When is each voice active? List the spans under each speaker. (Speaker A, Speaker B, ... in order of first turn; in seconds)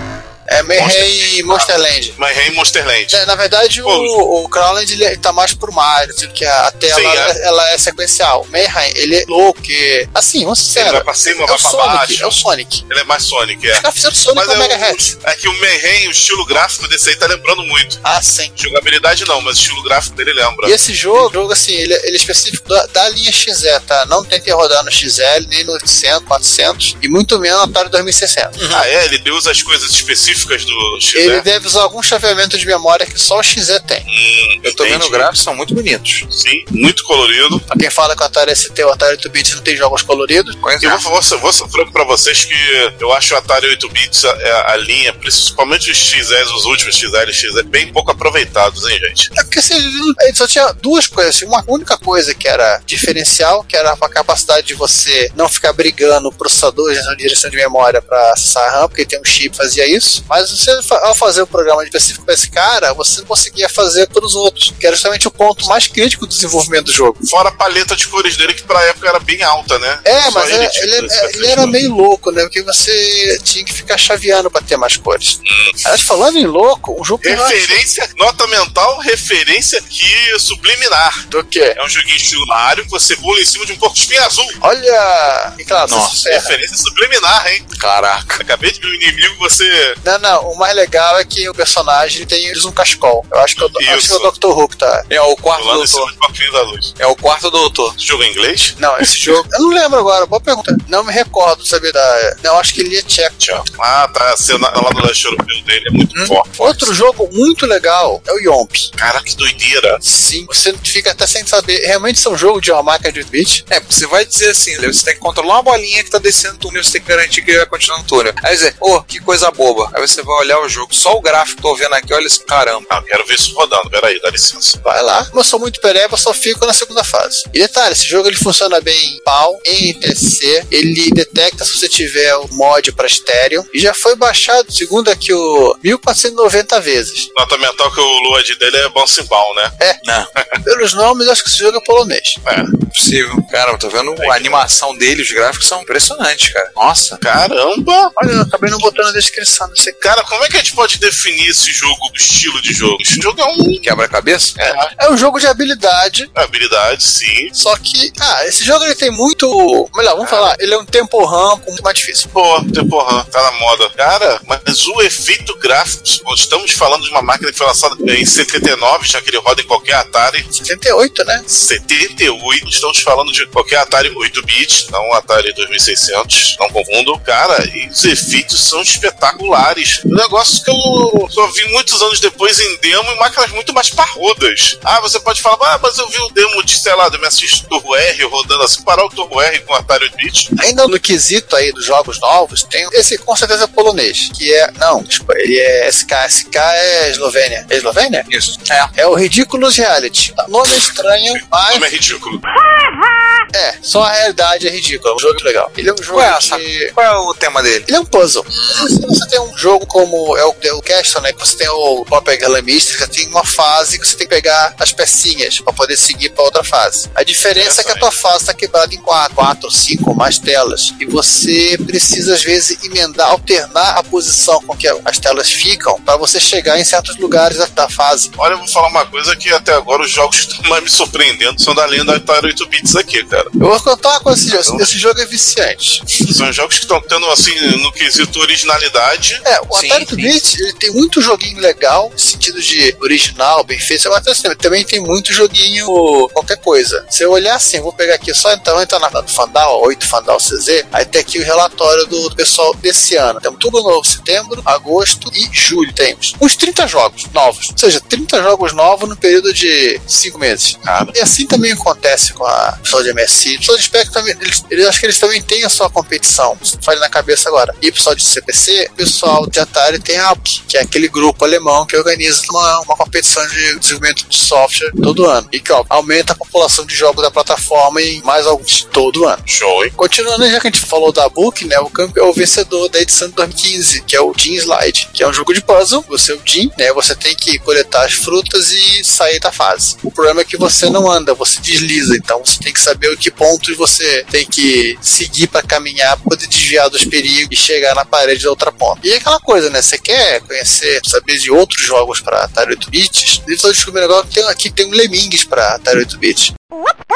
Speaker A: 0.5-2.1, 3.1-12.8, 13.7-15.1, 18.0-18.5, 20.6-28.6, 31.1-34.0, 37.7-40.6, 49.3-67.2, 70.0-77.8, 81.3-81.8, 84.6-86.5, 90.0-95.0, 98.8-103.4, 106.1-108.9, 110.0-113.6, 124.8-137.3, 140.6-142.4, 148.2-150.0, 155.0-156.3, 157.5-162.3, 170.5-171.4, 190.6-198.2, 198.9-201.9, 203.5-206.9, 207.9-228.3, 233.6-236.1, 239.4-279.4, 280.0-306.5
Speaker B: 0.8-3.2, 3.8-4.1, 6.9-7.3, 10.7-18.0, 18.6-21.2, 28.7-31.4, 34.1-35.3, 36.3-37.6, 40.8-49.3, 67.2-71.8, 75.4-75.8, 77.2-84.6, 86.2-87.6, 88.4-90.0, 93.6-94.3, 95.5-96.9, 98.0-99.0, 103.4-106.9, 109.0-110.0, 122.9-124.8, 137.3-139.7, 142.4-142.7, 144.2-144.6, 147.2-148.1, 150.0-153.9, 154.6-154.9, 156.3-157.5, 160.2-160.5, 162.3-170.5, 171.5-190.5, 201.7-202.4, 217.5-218.0, 228.4-233.5, 234.5-234.9, 236.2-239.4, 260.8-261.1, 279.5-279.9
Speaker C: 28.6-28.8, 34.6-36.2, 40.6-41.0, 85.9-86.2, 87.7-88.4, 95.1-96.1, 97.0-98.0, 113.7-122.9, 140.0-140.3, 142.9-147.2, 153.8-154.5, 198.3-198.9, 206.1-207.9, 208.5-208.9, 239.7-240.3